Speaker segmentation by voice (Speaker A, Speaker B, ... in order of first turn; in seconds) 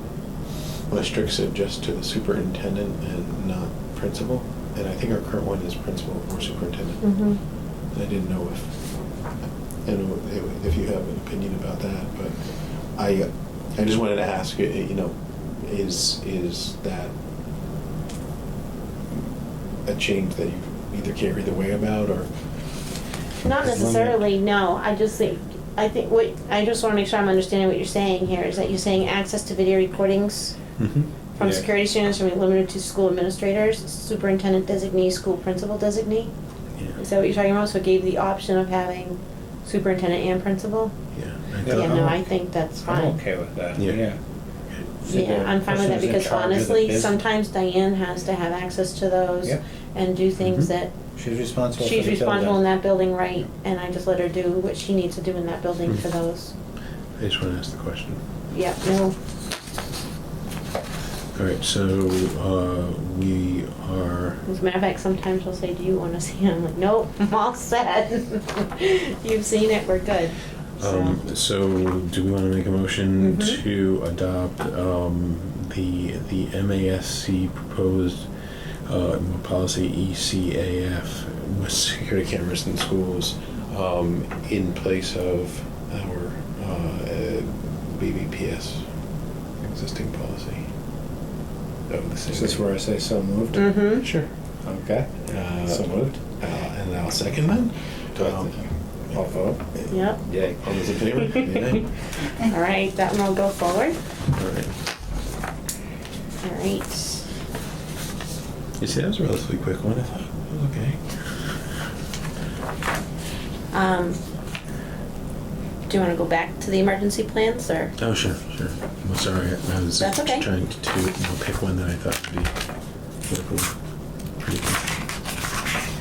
Speaker A: 0.9-7.0, 7.9-8.9, 9.8-17.1, 19.9-22.5, 23.6-24.2, 30.8-31.1, 41.1-42.1, 43.8-44.0, 50.4-50.7, 57.2-58.2, 61.3-64.4, 70.8-78.3, 78.8-88.9, 89.6-90.7, 91.9-92.6, 93.9-94.3, 95.2-98.7, 99.7-101.9, 104.3-104.7, 108.8-111.5, 118.0-122.5, 123.3-123.8, 124.4-124.8
Speaker B: 7.0-7.4, 23.4-30.6, 31.4-36.3, 37.0-40.9, 41.6-43.2, 45.0-50.9, 51.8-56.5, 58.5-59.1, 64.5-71.2, 73.2-73.6, 93.5-94.0, 99.9-100.2, 101.3-101.7, 102.4-104.0, 106.4-107.2, 113.7-114.2, 115.9-117.9, 120.0-120.5
Speaker C: 31.4-31.6, 41.6-42.2, 42.8-44.2, 45.0-47.2, 51.1-52.6, 92.3-93.8, 94.6-96.2, 98.2-98.5, 99.1-99.6, 100.3-100.6